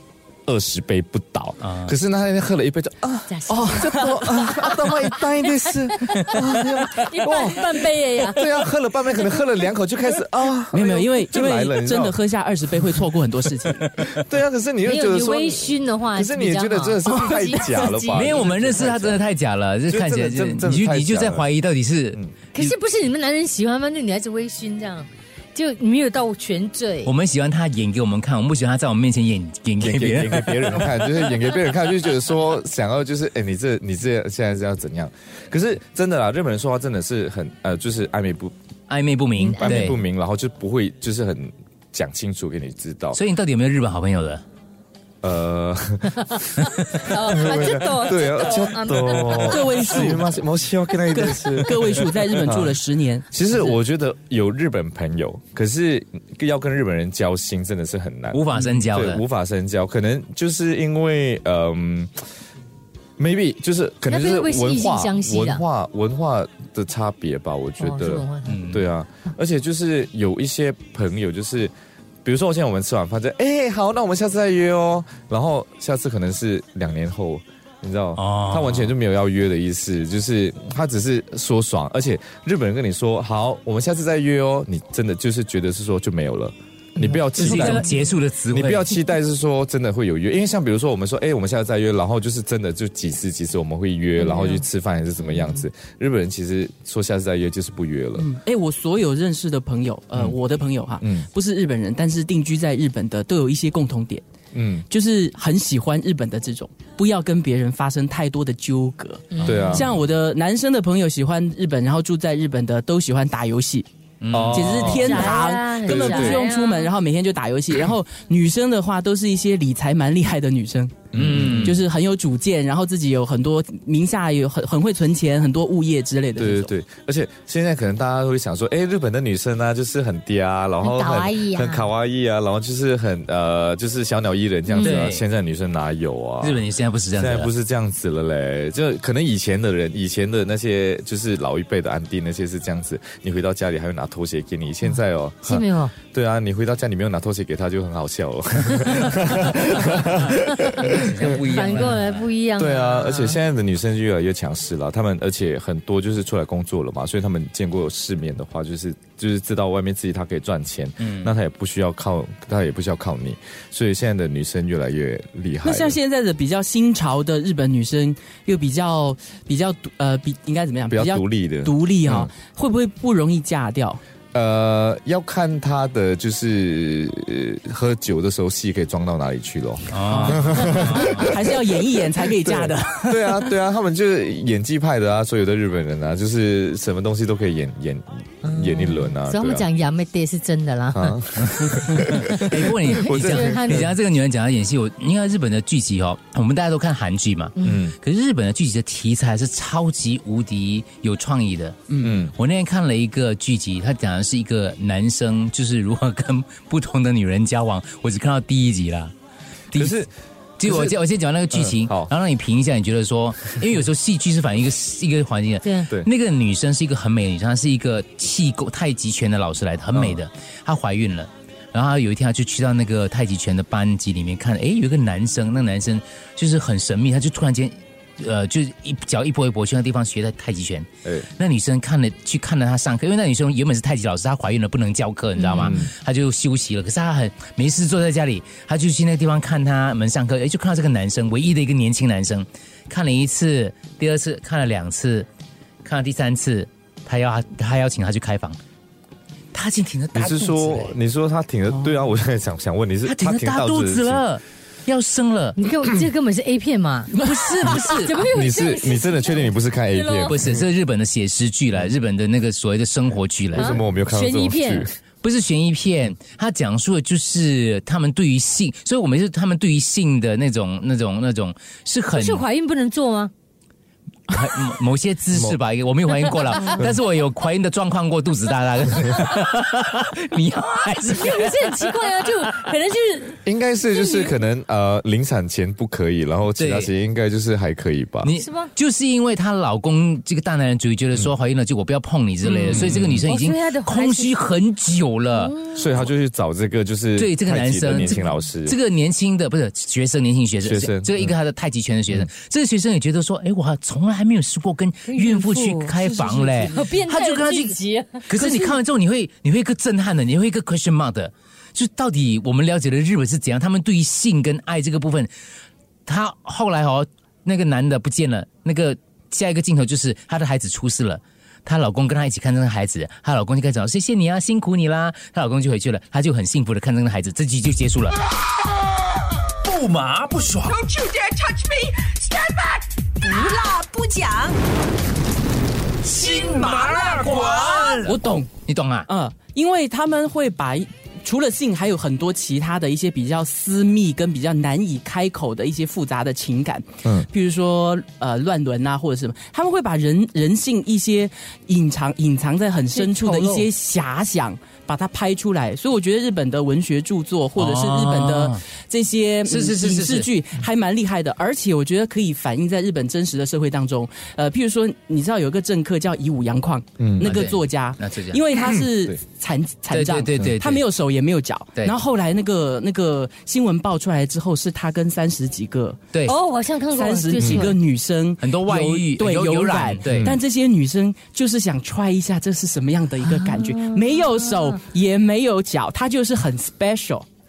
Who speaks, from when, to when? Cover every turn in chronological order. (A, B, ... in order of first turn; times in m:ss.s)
0:00.5-0:12.2 A
0:01.6-0:02.0 B
0:03.3-0:08.5 C
0:03.5-0:05.0 D
0:10.7-0:13.8 D
0:13.8-0:14.2 B
0:14.1-0:19.2 A
0:14.8-0:18.4 C
0:17.0-0:17.9 D
0:18.1-0:22.7 B
0:19.9-0:21.5 A
0:22.5-0:27.1 C
0:27.0-0:30.9 B
0:29.8-0:38.5 A
0:38.9-0:40.0 B
0:39.4-0:39.9 C
0:39.5-0:43.2 A
0:43.1-0:44.4 B
0:45.2-0:52.8 A
0:46.3-0:50.2 C
0:49.4-0:50.3 D
0:51.1-0:53.8 D
0:53.3-1:02.1 A
0:58.3-0:59.2 B
1:03.2-1:11.7 A
1:04.1-1:05.6 C
1:07.8-1:08.6 C
1:08.5-1:08.9 B
1:12.2-1:28.0 A
1:18.2-1:19.0 B
1:27.4-1:28.9 B
1:27.4-1:27.8 D
1:28.5-1:38.3 A
1:34.2-1:34.6 D
1:38.2-1:44.2 D
1:41.0-1:41.3 A
1:44.5-1:44.9 A
1:44.9-1:53.9 D
1:49.3-1:49.6 C
1:49.4-1:49.9 B
1:49.4-1:50.0 A
1:54.2-1:55.0 B
1:54.3-1:56.5 A
1:54.5-2:01.0 D
1:54.9-1:56.9 C
2:01.1-2:01.8 A
2:01.1-2:01.8 B
2:01.6-2:06.7 D
2:06.4-2:16.6 A
2:10.8-2:11.9 C
2:14.7-2:15.1 C
2:14.8-2:15.2 B
2:16.4-2:17.5 B
2:17.2-2:31.9 A
2:25.4-2:26.0 C
2:30.7-2:33.4 C
2:30.8-2:32.2 B
2:32.6-2:46.0 A
2:41.0-2:41.3 B
2:45.6-2:54.0 D
2:50.9-2:52.3 A
2:54.3-3:01.7 A
2:59.9-3:01.3 B
3:00.1-3:03.5 D
3:02.4-3:09.6 A
3:08.4-3:11.2 C
3:10.9-3:13.9 A
3:11.8-3:13.9 C
3:12.2-3:21.8 B
3:17.6-3:17.8 C
3:17.6-3:18.0 A
3:21.9-3:22.2 D
3:22.0-3:22.3 A
3:22.3-3:29.1 B
3:29.7-3:30.1 A
3:30.6-4:05.3 B
3:30.6-3:31.0 A
3:31.5-3:32.1 A
3:35.6-3:35.9 C
3:39.9-3:40.2 A
3:55.6-3:55.9 A
4:05.8-4:08.6 B
4:09.5-4:11.0 B
4:10.1-4:14.2 A
4:11.7-4:12.0 D
4:13.0-4:15.6 B
4:15.6-4:17.1 C
4:17.1-4:18.0 D
4:17.2-4:18.3 B
4:17.7-4:20.4 C
4:18.3-4:20.6 A
4:20.3-4:23.8 B
4:23.5-4:24.9 A
4:23.6-4:24.9 C
4:25.2-4:32.4 B
4:32.1-4:33.3 C
4:34.3-4:42.1 B
4:35.3-4:35.6 A
4:41.0-4:44.3 C
4:43.4-4:48.3 A
4:46.6-4:46.9 B
4:48.2-4:56.1 B
4:48.4-4:48.7 C
4:52.4-4:54.3 C
4:52.7-4:53.3 A
4:55.3-4:55.9 C
4:55.8-4:58.8 A
4:57.2-5:07.8 B
5:00.6-5:01.4 A
5:05.1-5:08.8 C
5:08.3-5:15.3 B
5:16.1-5:28.2 B
5:29.6-5:31.0 E
5:31.1-5:34.6 F
5:36.0-5:38.1 E
5:38.0-5:38.5 D
5:38.1-5:39.1 B
5:39.1-6:16.0 D
5:52.9-5:53.7 C
5:57.6-5:58.6 B
5:59.5-6:00.3 B
6:07.0-6:07.3 A
6:07.2-6:08.4 B
6:08.6-6:09.2 A
6:09.9-6:10.8 B
6:16.3-6:17.8 C
6:16.9-6:27.3 D
6:17.4-6:17.7 A
6:18.4-6:20.4 B
6:20.0-6:20.4 A
6:23.2-6:24.8 C